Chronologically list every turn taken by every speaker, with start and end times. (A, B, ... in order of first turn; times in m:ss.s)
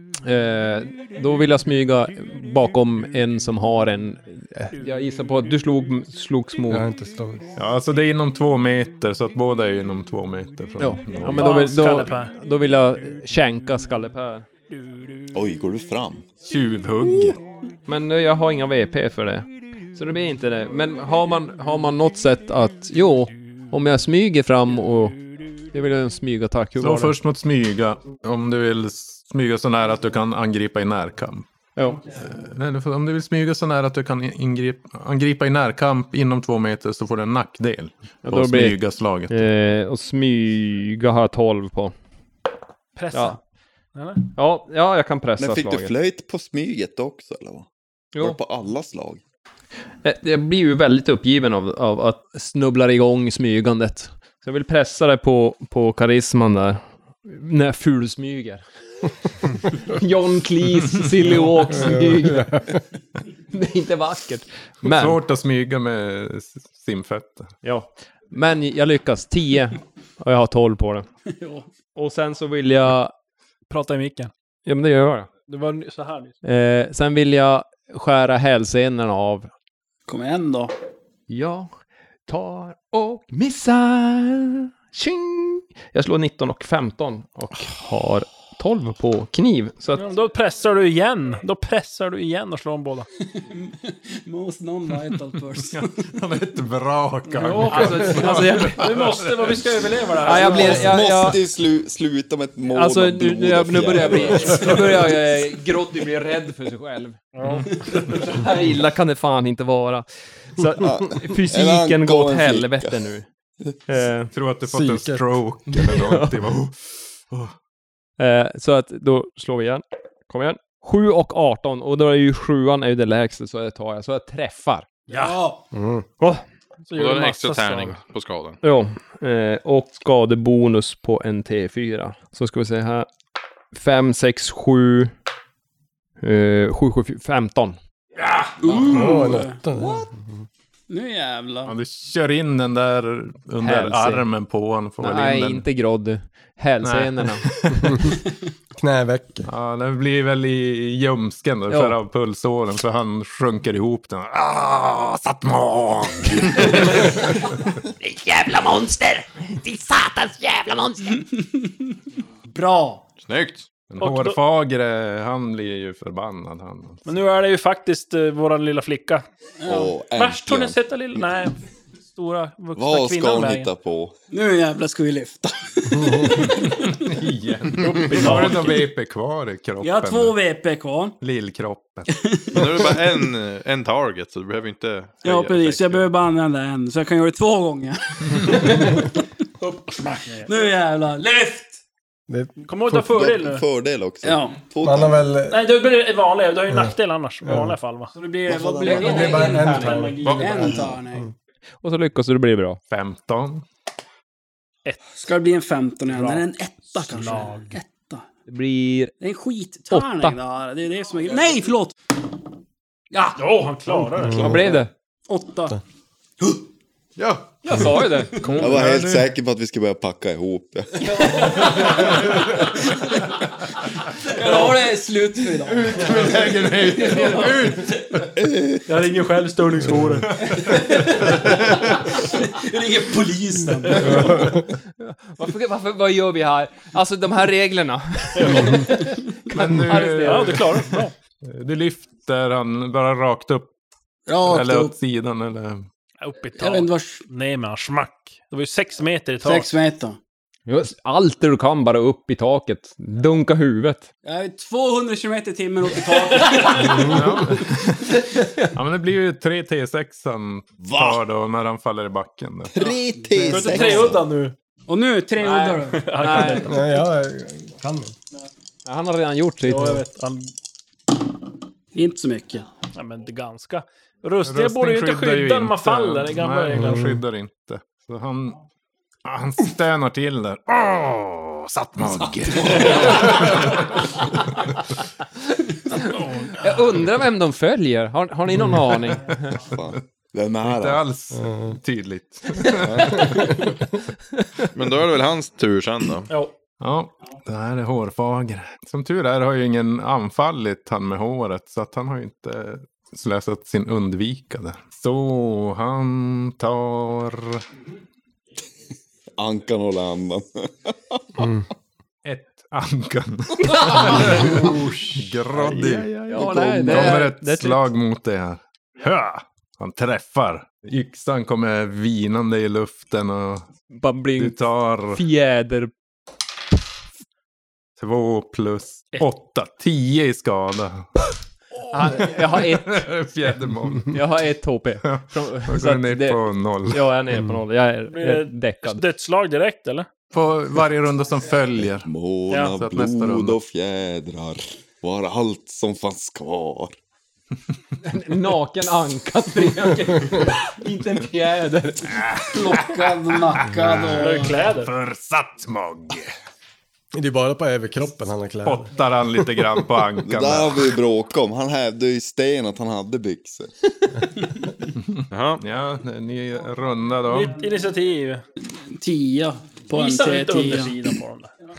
0:00.2-0:06.8 A
0:06.7-0:07.4 B
0:07.6-0:11.6 C
0:10.8-0:14.4 A
0:11.3-0:12.3 D
0:15.3-0:16.2 E
0:16.4-0:17.4 C
0:17.9-0:25.2 A
0:25.7-0:27.1 A
0:26.8-0:31.5 C
0:31.7-0:32.0 A
0:32.1-0:39.4 C
0:38.2-0:38.8 A
0:39.3-0:41.9 A
0:42.9-0:43.4 D
0:43.1-0:43.4 A
0:43.9-0:44.2 D
0:44.3-0:45.9 A
0:45.4-0:49.2 E
0:50.0-0:58.6 A
0:59.7-1:02.6 A
1:01.7-1:02.8 B
1:03.5-1:05.2 A
1:04.8-1:07.5 C
1:07.6-1:11.0 A
1:11.3-1:11.7 F
1:11.9-1:13.1 A
1:13.7-1:14.3 D
1:14.6-1:15.3 A
1:15.4-1:16.4 D
1:16.4-1:19.5 A
1:20.1-1:20.7 F
1:21.3-1:21.7 A
1:22.3-1:30.0 A
1:29.9-1:33.1 D
1:33.3-1:35.9 F
1:35.7-1:39.7 C
1:37.3-1:40.9 D
1:37.6-1:38.9 A
1:40.2-1:41.4 A
1:40.5-1:45.1 E
1:42.7-1:47.2 A
1:47.3-1:48.2 D
1:47.4-1:47.7 C
1:48.0-1:53.2 A
1:50.8-1:53.1 E
1:53.9-1:54.3 A
1:54.3-1:57.5 C
1:54.6-1:55.2 B
1:55.7-1:56.4 A
1:58.2-2:04.9 A
2:05.1-2:05.4 D
2:05.1-2:05.6 F
2:05.7-2:06.0 B
2:06.9-2:08.0 D
2:06.9-2:08.6 G
2:08.6-2:13.1 A
2:13.7-2:15.1 A
2:16.2-2:17.8 A
2:18.6-2:19.6 F
2:18.9-2:20.4 B
2:20.9-2:21.7 F
2:21.6-2:25.6 C
2:23.6-2:24.2 A
2:25.0-2:27.4 A
2:26.8-2:28.0 C
2:28.8-2:29.5 B
2:29.4-2:37.2 C
2:31.7-2:32.0 A
2:38.0-2:41.2 H
2:42.5-2:43.0 F
2:43.2-2:43.7 G
2:43.9-2:47.0 C
2:44.0-2:44.4 D
2:47.0-2:49.2 D
2:49.6-2:49.9 F
2:49.6-2:51.2 E
2:50.1-2:51.6 D
2:52.1-2:53.7 D
2:52.7-2:54.1 E
2:54.3-2:57.0 F
2:56.6-3:00.3 C
2:58.0-2:58.7 D
2:58.1-2:58.6 F
2:59.8-3:01.1 F
3:01.2-3:02.1 C
3:02.2-3:02.6 F
3:02.5-3:06.1 G
3:05.2-3:09.1 F
3:09.9-3:10.7 D
3:10.4-3:11.8 F
3:12.3-3:13.0 B
3:12.6-3:13.6 D
3:12.9-3:15.3 E
3:14.2-3:14.6 F
3:14.8-3:15.6 B
3:15.5-3:18.1 D
3:17.4-3:17.7 B
3:18.1-3:21.3 F
3:18.5-3:21.3 B
3:18.8-3:20.0 A
3:18.8-3:20.8 D
3:20.2-3:20.6 G
3:21.8-3:22.8 A
3:22.9-3:23.6 C
3:25.2-3:28.2 F
3:26.1-3:27.8 D
3:28.5-3:29.1 A
3:29.2-3:32.0 F
3:29.9-3:30.3 A
3:33.1-3:33.4 F
3:33.3-3:34.6 D
3:34.2-3:34.8 B
3:34.4-3:34.9 A
3:35.3-3:35.8 F
3:37.2-3:37.6 G
3:37.6-3:38.6 A
3:38.4-3:38.7 D
3:38.4-3:39.3 C
3:38.6-3:41.4 E
3:41.1-3:42.1 F
3:44.2-3:46.4 F
3:45.9-3:47.9 C
3:46.9-3:47.8 F
3:48.3-3:48.8 E
3:48.9-3:50.4 D
3:50.4-3:50.9 C
3:50.7-3:54.5 F
3:55.0-4:00.8 A
3:58.4-3:58.9 D
3:59.5-4:00.9 C
3:59.9-4:01.1 D
4:01.4-4:03.7 C
4:04.3-4:04.9 F
4:04.4-4:05.9 C
4:06.2-4:09.7 D
4:06.6-4:07.2 F
4:09.4-4:10.2 F
4:10.7-4:14.1 A
4:14.2-4:17.4 F
4:17.0-4:22.7 C
4:18.4-4:18.7 A
4:20.9-4:21.2 E
4:22.7-4:24.2 E
4:23.4-4:24.0 F
4:23.5-4:24.5 D
4:24.9-4:26.6 F
4:25.4-4:26.7 A
4:25.7-4:27.0 D
4:26.6-4:28.1 B
4:28.8-4:30.0 A
4:29.6-4:30.5 D
4:31.9-4:32.7 F
4:32.9-4:37.0 D
4:34.4-4:38.6 C
4:36.7-4:37.2 B
4:39.2-4:44.0 C
4:46.1-4:46.7 D
4:46.5-4:49.6 A
4:49.6-4:51.0 E
4:50.6-4:53.7 C
4:51.3-4:51.8 B
4:52.8-4:53.3 G
4:54.4-4:54.7 A
4:54.7-4:56.3 G
4:56.8-5:07.6 C
5:09.4-5:11.4 E
5:11.4-5:11.7 B
5:12.2-5:23.7 C
5:13.8-5:14.5 A
5:15.5-5:17.8 A
5:16.3-5:17.2 E
5:23.9-5:25.9 A
5:24.4-5:25.2 C
5:28.0-5:31.1 C
5:31.9-5:33.1 A
5:32.2-5:34.2 C
5:34.0-5:39.0 A
5:35.0-5:37.1 C
5:38.1-5:40.1 D
5:40.3-5:43.6 C
5:42.0-5:47.0 E
5:42.5-5:42.8 D
5:48.0-5:52.2 A
5:52.2-5:56.3 C
5:52.5-5:54.6 F
5:54.2-5:54.9 D
5:57.1-5:58.9 B
5:58.6-6:01.0 C
6:00.2-6:03.7 E
6:05.0-6:07.6 C
6:05.3-6:05.6 G
6:07.3-6:08.4 D
6:08.8-6:11.0 F
6:09.9-6:11.5 D